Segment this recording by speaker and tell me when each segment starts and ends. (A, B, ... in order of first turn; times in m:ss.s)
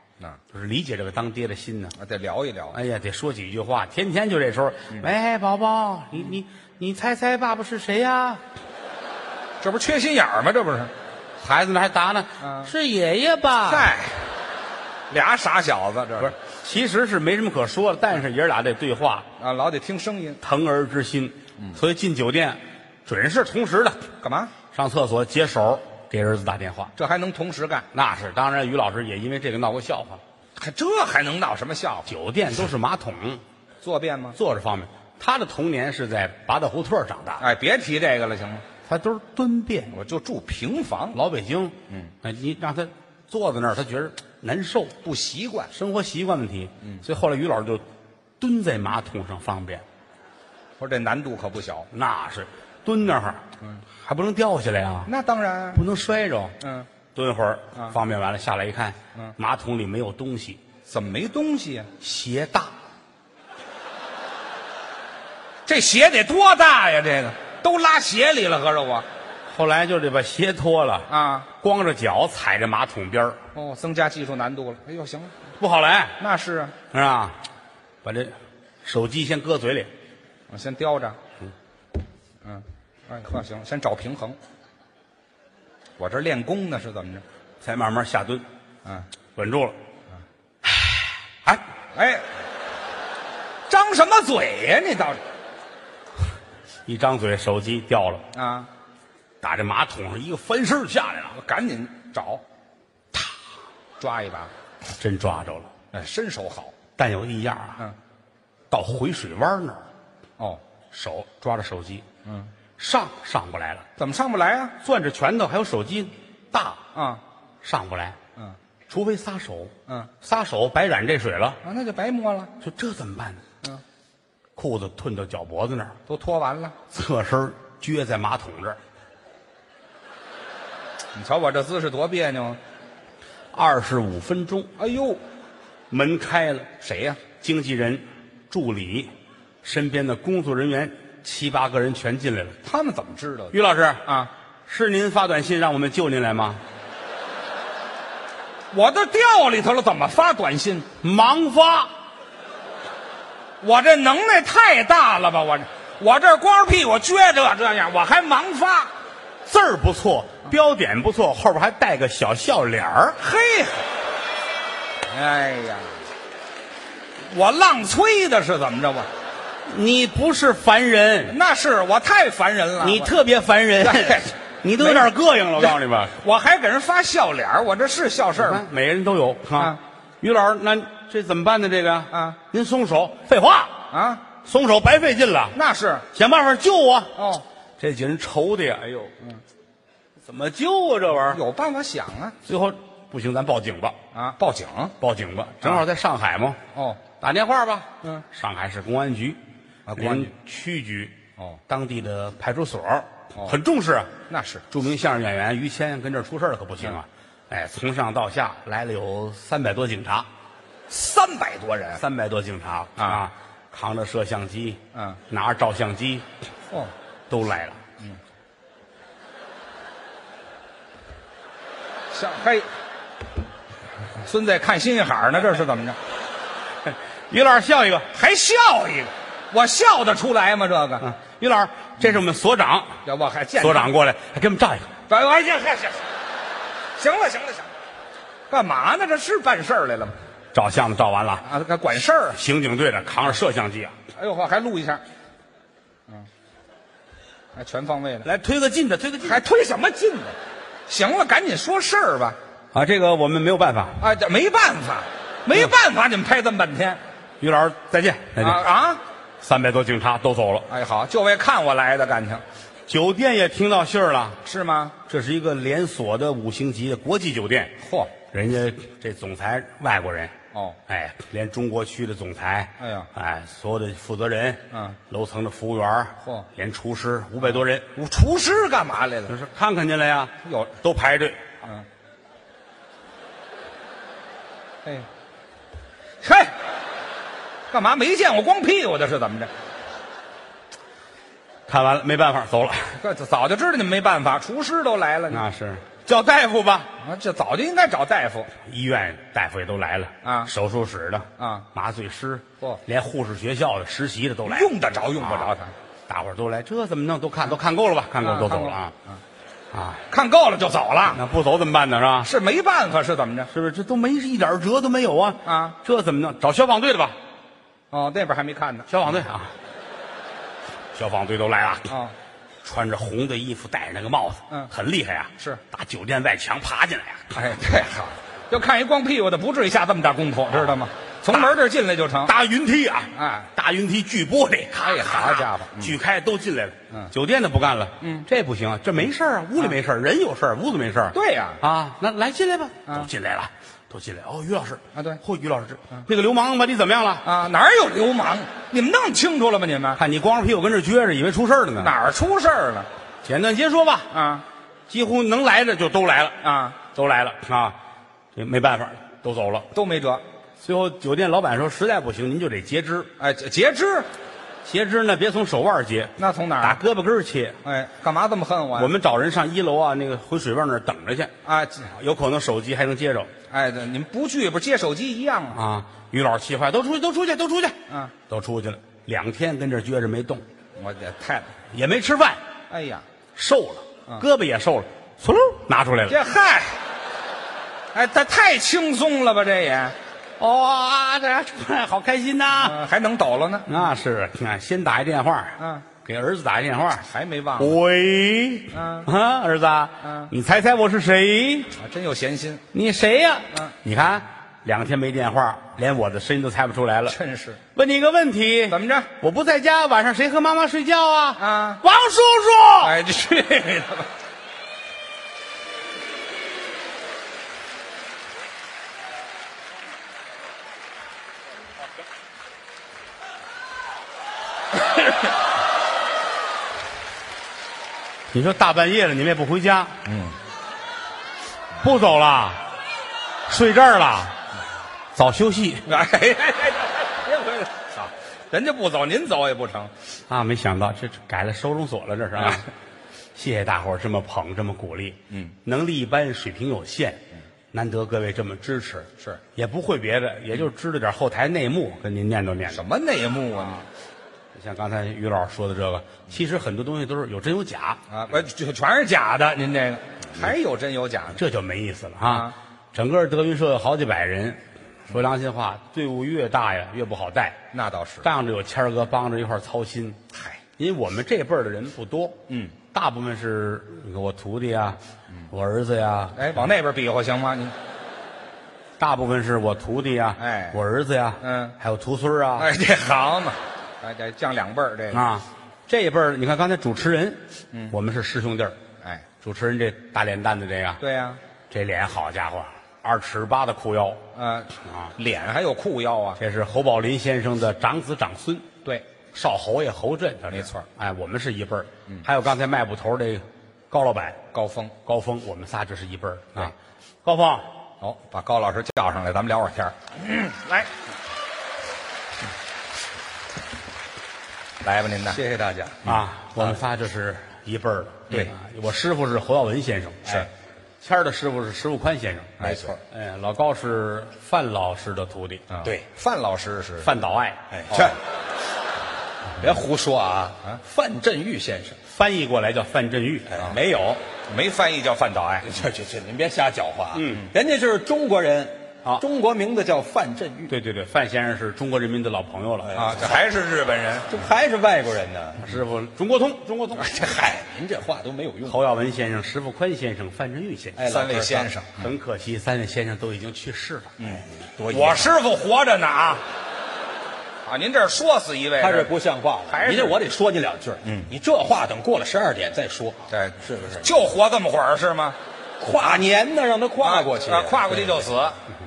0:00.5-0:01.9 A
0:02.0-0:02.8 B
0:02.7-0:08.4 A
0:09.6-0:10.9 B
0:11.4-0:13.9 A
0:12.4-0:12.7 B
0:13.7-0:14.2 B
0:15.1-0:16.3 B
0:16.2-0:19.3 A
0:19.4-0:20.4 B
0:20.4-0:24.1 A
0:24.2-0:24.5 B
0:24.7-0:26.9 A
0:27.0-0:27.9 B
0:27.9-0:30.2 A
0:30.6-0:32.1 B
0:32.1-0:33.4 A
0:33.8-0:34.4 B
0:34.4-0:37.4 A
0:37.4-0:38.6 B
0:38.9-0:39.9 A
0:39.9-0:41.2 B
0:41.1-0:45.0 A
0:45.0-0:45.7 B
0:45.7-0:47.8 A
0:48.4-0:49.8 A
0:50.8-0:51.9 B
0:51.9-0:53.4 A
0:54.0-0:55.1 A
0:55.1-0:55.8 B
0:55.7-0:56.6 A
0:56.6-0:56.9 B
0:57.1-1:00.6 A
1:00.9-1:01.9 B
1:02.0-1:02.7 A
1:05.7-1:09.1 B
1:09.5-1:13.4 A
1:11.1-1:11.5 B
1:13.6-1:15.3 B
1:15.6-1:16.2 A
1:16.2-1:16.7 B
1:16.9-1:17.4 A
1:18.0-1:19.9 A
1:20.5-1:21.2 B
1:22.4-1:24.4 B
1:26.0-1:27.2 B
1:27.6-1:28.4 A
1:29.4-1:29.8 A
1:30.6-1:31.6 A
1:31.9-1:32.3 B
1:33.7-1:35.2 B
1:36.9-1:38.3 A
1:38.3-1:38.7 B
1:39.4-1:41.4 A
1:41.3-1:42.4 B
1:44.0-1:44.5 B
1:45.0-1:45.7 A
1:45.9-1:46.7 B
1:47.0-1:47.8 A
1:48.7-1:49.8 A
1:50.9-1:52.0 A
1:52.2-1:52.5 B
1:52.8-1:53.9 A
1:54.0-1:54.8 B
1:54.8-1:56.8 A
1:56.9-1:57.2 B
1:57.6-1:58.2 A
1:58.9-2:01.6 A
2:01.6-2:02.5 B
2:02.6-2:03.4 A
2:04.6-2:06.0 A
2:06.1-2:06.8 B
2:06.9-2:08.8 A
2:11.2-2:12.6 B
2:13.5-2:14.7 A
2:14.8-2:15.2 B
2:15.9-2:16.7 A
2:16.8-2:17.2 B
2:17.4-2:19.1 A
2:19.6-2:22.6 A
2:22.6-2:24.3 B
2:23.5-2:24.0 A
2:24.7-2:26.6 A
2:28.7-2:30.9 B
2:31.0-2:31.9 A
2:33.6-2:38.9 B
2:39.5-2:43.2 A
2:43.2-2:43.8 B
2:45.1-2:46.0 B
2:47.3-2:49.1 B
2:49.7-2:51.4 A
2:51.3-2:53.1 B
2:52.8-2:56.2 A
2:53.8-2:58.6 B
2:58.4-3:03.8 A
3:02.1-3:02.4 B
3:03.9-3:04.2 B
3:04.4-3:05.6 A
3:05.5-3:06.1 B
3:06.1-3:07.1 A
3:07.2-3:07.4 B
3:07.8-3:09.1 A
3:10.2-3:11.4 A
3:11.3-3:12.4 B
3:12.4-3:14.0 A
3:14.1-3:15.0 B
3:15.0-3:16.6 A
3:16.7-3:17.0 B
3:17.2-3:19.4 A
3:19.9-3:20.3 B
3:20.0-3:21.2 A
3:21.7-3:24.1 A
3:24.3-3:24.6 B
3:24.7-3:30.3 A
3:30.9-3:32.0 B
3:32.0-3:36.3 A
3:33.0-3:33.3 B
3:34.9-3:35.2 B
3:37.3-3:37.8 A
3:42.1-3:42.7 B
3:44.2-3:46.0 B
3:46.9-3:48.1 A
3:48.1-3:51.0 B
3:51.0-3:53.0 A
3:53.0-3:53.9 B
3:53.6-3:54.9 A
3:55.1-3:56.0 B
3:57.0-3:57.7 B
3:58.5-4:00.2 B
4:00.5-4:01.5 A
4:01.4-4:02.4 B
4:02.3-4:04.0 A
4:04.2-4:05.0 B
4:07.6-4:08.3 B
4:08.2-4:09.4 A
4:09.2-4:10.4 B
4:10.9-4:12.4 B
4:12.7-4:14.0 A
4:14.0-4:17.0 B
4:17.4-4:18.7 A
4:18.4-4:19.0 B
4:19.4-4:20.7 A
4:20.7-4:22.4 B
4:22.9-4:24.4 A
4:24.4-4:25.0 B
4:25.1-4:27.8 A
4:27.8-4:28.1 B
4:28.3-4:30.4 A
4:30.5-4:30.8 B
4:30.9-4:37.9 A
4:32.8-4:33.1 B
4:34.7-4:35.0 B
4:37.4-4:39.4 B
4:39.3-4:41.4 A
4:40.4-4:40.7 B
4:46.2-4:46.6 B
4:47.7-4:49.5 B
4:51.7-4:53.0 A
4:53.0-4:55.4 B
4:55.3-4:56.9 A
4:57.0-4:58.5 B
4:58.6-5:05.5 A
5:00.2-5:00.5 B
5:01.4-5:01.7 B
5:04.5-5:05.7 B
5:06.1-5:08.9 A
5:08.2-5:09.2 B
5:09.7-5:10.0 A
5:10.1-5:11.2 B
5:11.1-5:12.3 A
5:12.2-5:13.5 B
5:13.5-5:17.2 A
5:15.4-5:15.8 B
5:17.9-5:18.9 B
5:18.9-5:19.5 A
5:20.9-5:21.9 A
5:21.9-5:22.1 B
5:22.6-5:27.6 A
5:27.3-5:32.3 B
5:32.2-5:47.2 A
5:33.2-5:33.5 B
5:34.8-5:36.0 B
5:38.0-5:38.3 B
5:41.1-5:41.6 B
5:45.0-5:45.2 B
5:47.2-5:50.0 B
5:50.0-5:51.9 A
5:51.8-5:52.9 B
5:53.2-5:54.1 A
5:54.1-5:54.4 B
5:54.9-5:57.8 A
5:56.4-5:56.8 B
5:58.4-5:59.7 A
5:59.7-6:00.2 B
6:00.6-6:03.1 A
6:03.2-6:04.1 B
6:04.6-6:07.6 A
6:06.2-6:06.8 B
6:07.6-6:08.9 B
6:08.8-6:11.3 A
6:11.4-6:11.9 B
6:11.9-6:13.3 A
6:13.5-6:15.6 B
6:15.5-6:17.8 A
6:18.3-6:20.4 A
6:20.8-6:21.5 B
6:21.7-6:22.4 A
6:22.7-6:23.0 B
6:23.4-6:26.2 A
6:26.1-6:26.8 B
6:27.9-6:30.0 B
6:30.4-6:32.8 A
6:32.6-6:33.7 B
6:33.7-6:37.1 A
6:35.6-6:35.8 B
6:37.0-6:37.8 B
6:37.6-6:41.7 A
6:38.7-6:39.1 B
6:40.0-6:40.3 B
6:41.8-6:42.6 B
6:42.7-6:47.2 A
6:47.1-6:47.6 B
6:47.8-6:53.0 A
6:48.7-6:49.1 B
6:51.4-6:51.8 B
6:52.8-6:54.1 B
7:08.3-7:10.0 A
7:10.1-7:10.4 B
7:11.8-7:12.6 A
7:13.5-7:14.4 A
7:15.2-7:16.0 A
7:15.9-7:19.9 B
7:20.3-7:22.7 A
7:23.4-7:32.8 A
7:32.7-7:33.8 B
7:34.5-7:38.0 A
7:38.1-7:41.4 B
7:41.4-7:47.6 A
7:42.3-7:42.5 B
7:47.7-7:48.3 B
7:48.2-7:50.2 A
7:50.3-7:50.6 B
7:50.8-7:56.6 A
7:52.5-7:52.8 B
7:56.4-7:57.8 B
7:59.0-8:02.7 A
8:00.4-8:00.8 B
8:01.4-8:01.8 B
8:02.6-8:05.3 B
8:05.1-8:08.8 A
8:09.4-8:11.0 A
8:11.0-8:11.4 B
8:11.7-8:14.2 A
8:14.4-8:16.4 B
8:14.8-8:15.1 A
8:16.4-8:18.7 A
8:19.3-8:24.4 A
8:20.5-8:20.9 B
8:24.5-8:24.9 B
8:25.0-8:27.7 A
8:28.0-8:30.9 B
8:34.8-8:35.4 B
8:35.3-8:36.1 C
8:36.0-8:40.5 A
8:41.0-8:45.7 A
8:42.6-8:43.0 B
8:42.6-8:43.0 C
8:45.7-8:47.1 B
8:47.0-8:47.7 A
8:47.7-8:48.2 C
8:49.6-8:52.0 C
8:52.1-8:53.6 A
8:53.5-8:54.2 C
8:54.5-8:55.7 B
8:55.6-9:00.8 C
8:57.1-8:57.5 A
9:00.7-9:02.9 A
9:02.8-9:03.4 C
9:03.0-9:04.3 B
9:04.3-9:05.7 C
9:05.6-9:07.2 A
9:07.0-9:08.8 C
9:08.7-9:11.0 A
9:11.0-9:11.7 C
9:11.0-9:12.0 B
9:12.0-9:14.1 A
9:14.2-9:16.4 B
9:14.3-9:15.4 C
9:17.7-9:19.1 B
9:18.8-9:24.1 C
9:19.7-9:20.2 B
9:21.0-9:21.3 B
9:23.3-9:25.4 B
9:25.8-9:28.2 C
9:27.0-9:28.6 B